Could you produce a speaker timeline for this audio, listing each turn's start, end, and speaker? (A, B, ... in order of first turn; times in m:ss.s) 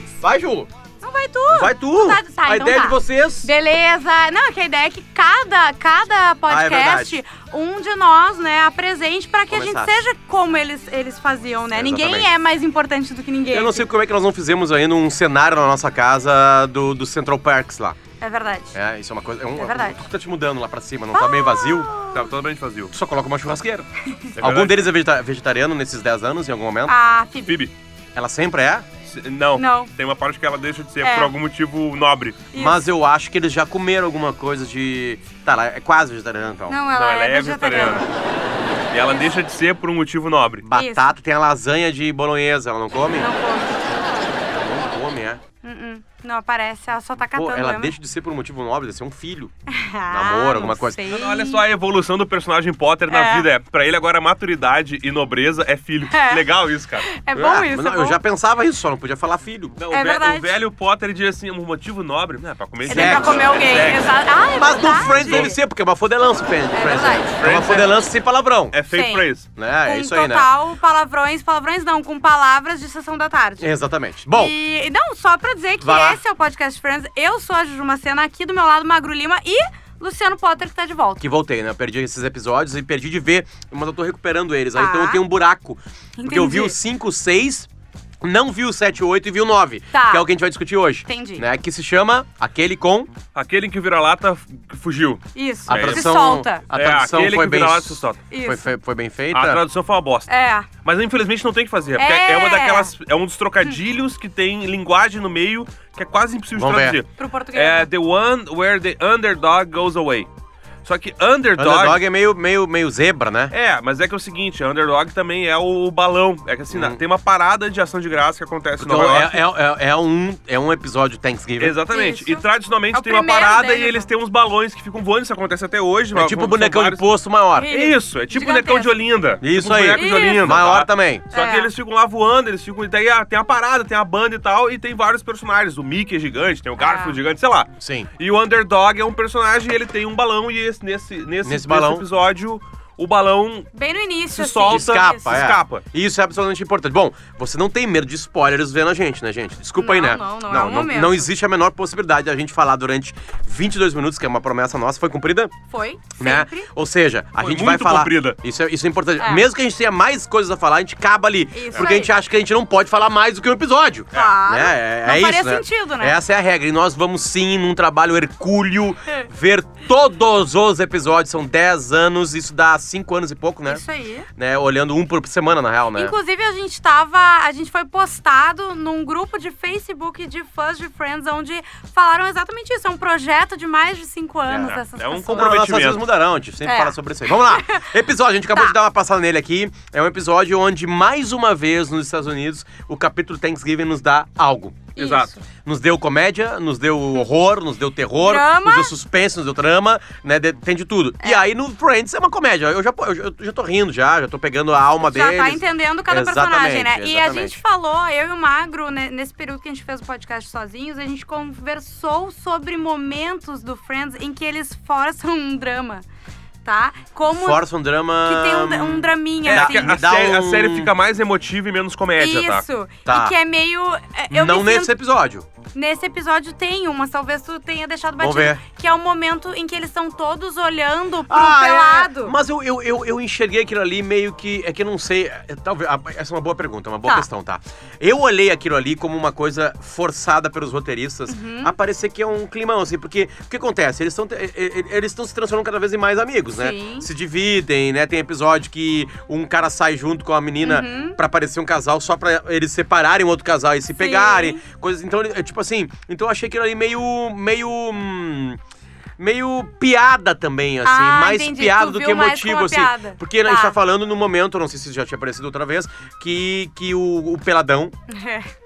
0:00.2-0:00.7 A
0:01.0-0:13.9 B
0:01.5-0:03.5 A
0:06.5-0:07.2 A
0:09.5-0:10.0 A
0:11.7-0:12.3 A
0:13.5-0:18.0 A
0:18.2-0:18.8 B
0:18.7-0:21.9 A
0:19.6-0:20.0 B
0:21.1-0:22.2 B
0:22.1-0:22.9 C
0:22.9-0:26.9 A
0:24.4-0:24.9 C
0:26.8-0:27.6 B
0:27.4-0:27.7 C
0:28.1-0:28.9 A
0:29.0-0:32.4 C
0:29.6-0:29.9 B
0:31.0-0:31.3 B
0:32.5-0:32.8 B
0:32.5-0:36.8 A
0:36.7-0:38.1 B
0:36.9-0:38.0 C
0:38.9-0:40.6 C
0:40.6-0:43.3 A
0:40.7-0:41.1 B
0:43.1-0:44.3 B
0:44.2-0:45.4 A
0:45.6-0:47.9 B
0:47.4-0:49.5 A
0:49.7-0:51.6 B
0:50.1-0:51.0 A
0:51.1-0:57.1 C
0:53.1-0:53.5 B
0:56.1-0:56.4 B
0:57.1-0:58.2 B
0:57.3-0:59.8 A
0:59.8-1:04.2 C
0:59.9-1:00.5 B
1:02.8-1:03.8 A
1:02.8-1:05.6 B
1:04.6-1:08.8 A
1:05.0-1:05.5 C
1:06.7-1:07.3 B
1:07.4-1:08.1 C
1:08.7-1:09.5 C
1:08.9-1:09.3 B
1:09.5-1:10.5 A
1:09.8-1:13.7 B
1:13.6-1:14.5 A
1:14.3-1:21.2 B
1:15.8-1:16.2 A
1:21.2-1:27.7 A
1:24.7-1:25.2 B
1:26.2-1:26.8 B
1:28.2-1:33.1 A
1:29.9-1:30.3 B
1:31.0-1:31.4 B
1:33.3-1:36.1 C
1:35.3-1:36.6 B
1:35.7-1:39.6 A
1:36.7-1:38.2 C
1:38.3-1:38.6 B
1:39.3-1:40.3 C
1:40.3-1:40.7 B
1:40.8-1:50.3 C
1:42.0-1:42.9 B
1:46.5-1:47.0 A
1:47.2-1:47.9 B
1:50.8-1:52.0 C
1:51.6-1:53.5 A
1:53.5-1:59.4 C
1:56.7-1:57.0 A
1:58.8-2:01.8 A
2:01.6-2:07.0 C
2:01.9-2:04.1 B
2:06.1-2:07.7 A
2:07.6-2:09.0 B
2:07.7-2:23.7 C
2:09.4-2:11.3 A
2:09.9-2:10.5 B
2:11.3-2:11.7 B
2:16.8-2:17.2 B
2:17.8-2:18.1 A
2:21.4-2:22.0 A
2:23.7-2:25.3 B
2:24.3-2:25.8 C
2:24.7-2:35.5 A
2:29.8-2:31.3 B
2:35.7-2:36.7 B
2:36.2-2:53.8 A
2:37.4-2:38.4 C
2:39.2-2:39.4 B
2:41.5-2:42.1 B
2:44.1-2:46.2 B
2:53.7-2:54.3 B
2:54.4-2:56.1 A
2:55.9-3:05.6 B
3:04.5-3:04.8 A
3:04.6-3:06.0 C
3:05.3-3:14.9 A
3:06.6-3:07.9 B
3:15.0-3:15.3 C
3:15.0-3:15.4 B
3:15.6-3:27.6 A
3:18.2-3:18.9 B
3:25.0-3:36.0 B
3:36.6-3:37.6 B
3:37.3-3:40.9 A
3:38.2-3:39.9 B
3:39.4-3:42.6 C
3:42.2-3:44.9 B
3:43.0-3:43.3 A
3:44.3-3:45.5 A
3:45.7-3:52.3 B
3:48.2-3:48.6 A
3:51.3-4:18.6 A
4:01.3-4:01.7 B
4:06.6-4:07.1 B
4:10.6-4:11.2 B
4:14.0-4:14.6 B
4:19.2-4:27.9 A
4:20.8-4:23.8 B
4:28.1-4:28.5 B